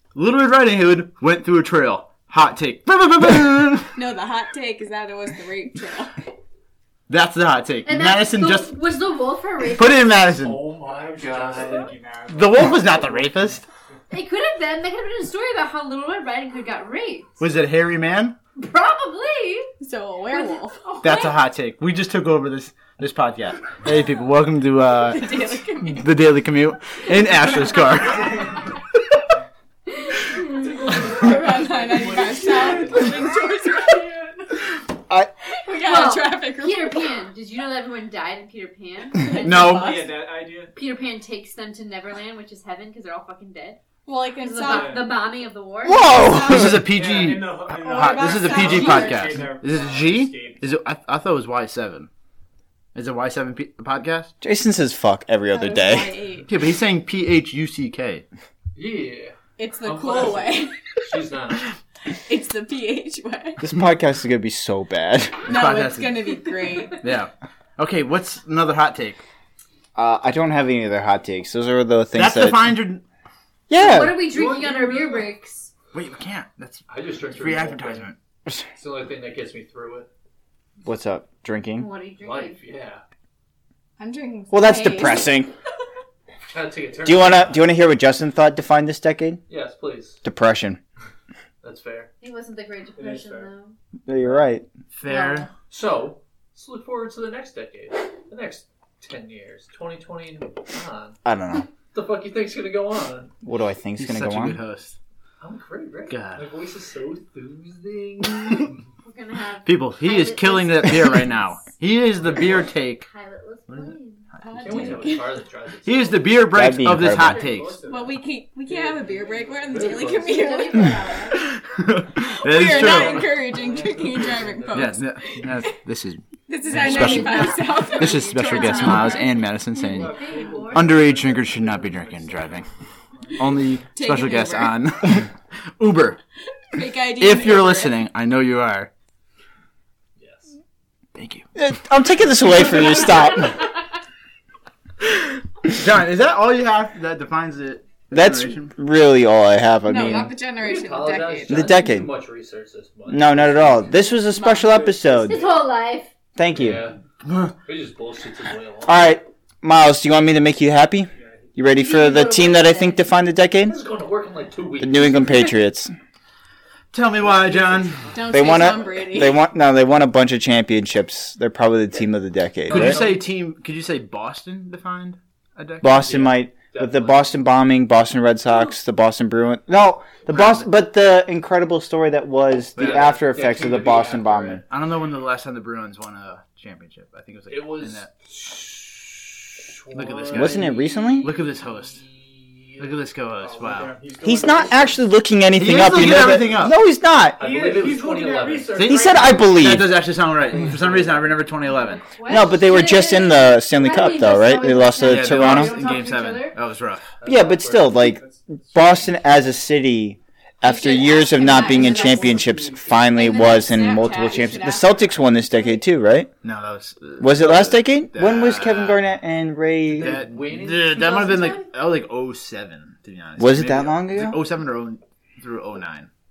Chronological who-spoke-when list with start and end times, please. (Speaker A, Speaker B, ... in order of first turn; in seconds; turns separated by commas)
Speaker A: 0.1-3.9, Speaker B: 4.0-6.2, Speaker A: 7.1-8.8, Speaker C: 7.8-10.2, Speaker A: 9.7-10.7, Speaker D: 10.4-11.9, Speaker E: 10.8-13.6, Speaker A: 12.3-13.6, Speaker C: 14.1-17.3, Speaker A: 17.4-18.4, Speaker C: 18.6-19.7, Speaker B: 19.8-20.9, Speaker C: 20.3-21.4, Speaker A: 21.0-28.6, Speaker B: 25.0-26.1, Speaker C: 30.2-30.9, Speaker E: 30.5-33.5, Speaker B: 30.9-34.5, Speaker B: 35.6-37.2, Speaker C: 35.8-39.7, Speaker B: 39.2-40.1, Speaker A: 39.4-40.0, Speaker E: 39.7-40.7, Speaker C: 40.7-43.8, Speaker B: 44.1-45.2, Speaker C: 44.4-46.3, Speaker E: 44.6-45.2, Speaker F: 45.8-46.9, Speaker B: 46.0-46.8, Speaker A: 46.3-52.1, Speaker E: 46.9-50.6, Speaker B: 47.7-49.5, Speaker A: 53.0-54.3, Speaker F: 54.4-56.1, Speaker B: 55.5-56.5, Speaker A: 56.5-58.2, Speaker D: 58.8-61.7, Speaker B: 59.6-60.8, Speaker B: 62.1-63.6, Speaker F: 63.6-65.5, Speaker A: 65.5-66.3, Speaker B: 65.5-67.0, Speaker A: 67.0-69.2, Speaker F: 70.0-72.8, Speaker A: 72.2-73.0, Speaker F: 73.7-74.3, Speaker C: 73.8-75.7, Speaker D: 74.3-75.2, Speaker A: 75.9-78.2, Speaker D: 76.9-78.1, Speaker D: 78.8-80.1, Speaker F: 80.8-81.9, Speaker C: 81.8-82.6, Speaker D: 82.2-83.0, Speaker B: 84.0-85.4, Speaker F: 84.5-85.5, Speaker D: 86.5-87.7, Speaker F: 87.0-89.4, Speaker D: 89.5-90.2, Speaker F: 90.2-90.8, Speaker D: 91.6-92.1, Speaker C: 92.2-93.8, Speaker E: 93.0-93.5, Speaker F: 94.1-94.7, Speaker A: 94.9-95.5, Speaker B: 95.1-95.4, Speaker D: 95.7-101.2, Speaker F: 101.2-101.7, Speaker D: 101.9-103.3, Speaker F: 103.4-104.6, Speaker A: 104.0-105.0, Speaker D: 105.4-108.8, Speaker A: 106.1-106.5, Speaker C: 109.0-111.6, Speaker A: 109.7-113.1, Speaker C: 112.3-114.2, Speaker B: 114.4-115.3, Speaker A: 114.5-115.1, Speaker D: 114.6-116.4, Speaker A: 115.8-117.8, Speaker F: 116.5-117.5, Speaker E: 117.0-120.2, Speaker B: 117.8-121.0, Speaker D: 119.7-120.6, Speaker C: 120.2-121.4, Speaker A: 121.4-123.4, Speaker B: 122.4-125.8, Speaker D: 122.5-125.0, Speaker E: 123.7-124.0, Speaker A: 124.7-130.2, Speaker B: 126.5-130.0, Speaker C: 126.7-129.3, Speaker E: 129.8-133.8, Speaker C: 129.9-131.0, Speaker A: 130.7-132.7, Speaker A: 133.4-136.2, Speaker B: 133.9-134.9, Speaker B: 136.7-138.0, Speaker A: 137.2-138.9, Speaker D: 140.2-140.5, Speaker A: 141.2-141.5, Speaker F: 141.6-143.7, Speaker A: 145.6-148.7, Speaker F: 148.1-150.3, Speaker B: 149.8-151.9, Speaker D: 150.6-153.9, Speaker F: 151.5-152.1, Speaker F: 153.1-155.5, Speaker B: 154.3-154.8, Speaker E: 154.8-155.6, Speaker C: 155.1-156.1, Speaker F: 156.4-156.9, Speaker D: 156.5-157.0, Speaker A: 157.2-157.5, Speaker D: 157.7-159.2, Speaker F: 158.9-163.8, Speaker E: 161.1-161.6, Speaker C: 161.8-163.1, Speaker D: 163.6-165.5, Speaker F: 164.8-165.9, Speaker A: 166.9-168.1, Speaker E: 167.2-168.7, Speaker B: 168.1-169.4, Speaker F: 168.3-173.0, Speaker D: 172.7-173.3, Speaker A: 172.7-176.2, Speaker F: 175.8-184.6, Speaker D: 175.9-177.4, Speaker A: 180.3-180.7, Speaker A: 182.8-183.1, Speaker D: 182.8-184.6, Speaker A: 184.7-188.1, Speaker D: 187.5-193.0, Speaker A: 189.9-190.7, Speaker F: 190.3-191.3, Speaker A: 191.2-192.0, Speaker A: 192.8-194.0, Speaker E: 193.4-195.0, Speaker F: 194.2-197.4, Speaker A: 195.6-196.8, Speaker E: 197.4-199.4, Speaker D: 197.4-199.5, Speaker A: 198.8-202.1, Speaker F: 198.8-199.9, Speaker D: 200.7-201.0, Speaker C: 201.8-206.6, Speaker F: 202.3-205.8, Speaker A: 205.0-207.1, Speaker D: 207.2-208.0, Speaker F: 207.2-216.3, Speaker E: 207.9-209.3, Speaker B: 210.6-215.2, Speaker E: 211.4-213.3, Speaker A: 216.4-219.0, Speaker F: 217.2-220.2, Speaker D: 219.9-221.3, Speaker A: 219.9-226.1, Speaker C: 220.9-221.7, Speaker F: 223.4-224.4